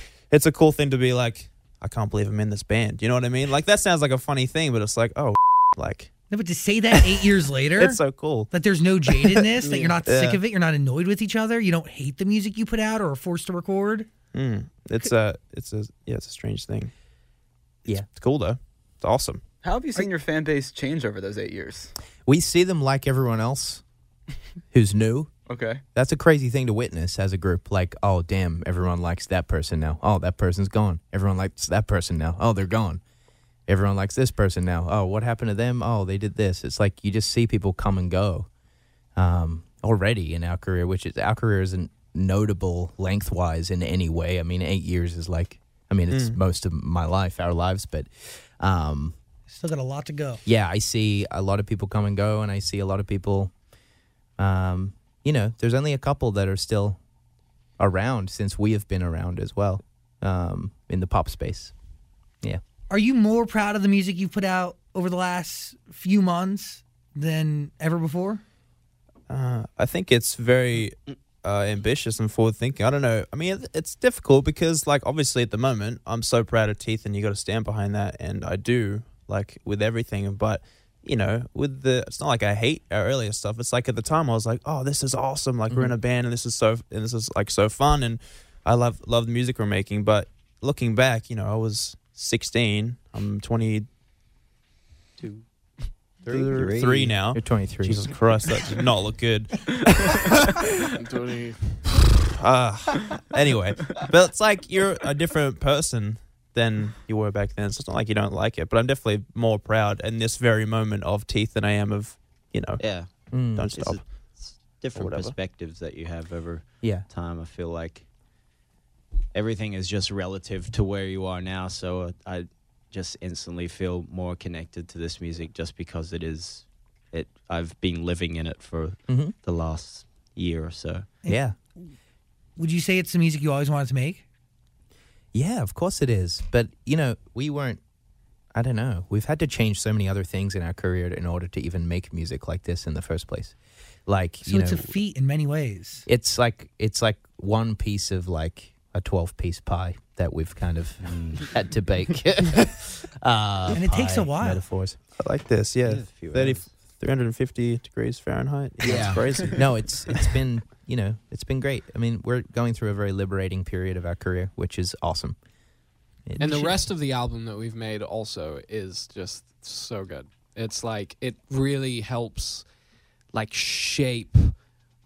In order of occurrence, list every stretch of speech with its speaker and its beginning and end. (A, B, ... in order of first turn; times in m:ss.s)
0:00.3-0:06.1 A
0:06.3-0:14.1 B
0:06.9-0:07.2 A
0:07.8-0:08.5 A
0:09.1-0:09.4 A
0:09.6-0:09.9 C
0:10.0-0:10.4 A
0:14.3-0:16.9 A
0:18.0-0:19.4 A
0:19.6-0:21.9 C
0:22.2-0:23.8 D
0:24.7-0:25.3 D
0:25.5-0:25.8 C
0:25.9-0:33.0 D
0:33.7-0:38.5 D
0:39.2-0:49.2 D
0:46.1-0:46.4 A
0:49.5-0:50.4 B
0:50.4-0:53.5 D
0:54.4-0:57.0 D
0:57.8-1:01.7 D
1:02.9-1:08.4 B
1:09.3-1:33.9 A
1:25.7-1:26.0 D
1:36.3-1:37.2 E
1:36.3-1:40.7 A
1:37.3-1:38.1 D
1:41.0-1:41.8 F
1:42.2-1:52.8 A
1:52.8-1:58.0 E
1:53.3-1:53.8 D
1:53.5-1:54.0 A
1:54.9-1:55.3 A
1:59.3-2:11.1 E
2:09.1-2:09.3 D
2:11.2-2:11.5 D
2:11.2-2:11.9 B
2:12.6-2:14.2 B
2:15.3-2:17.8 D
2:18.5-2:23.5 D
2:24.1-2:24.9 D
2:24.4-2:26.0 B
2:26.1-2:35.0 D
2:31.0-2:31.5 E
2:33.7-2:34.6 B
2:35.2-2:40.2 A
2:35.8-2:36.7 E
2:38.8-2:45.4 D
2:46.2-2:46.8 D
2:46.4-2:52.6 F
2:53.3-2:54.5 F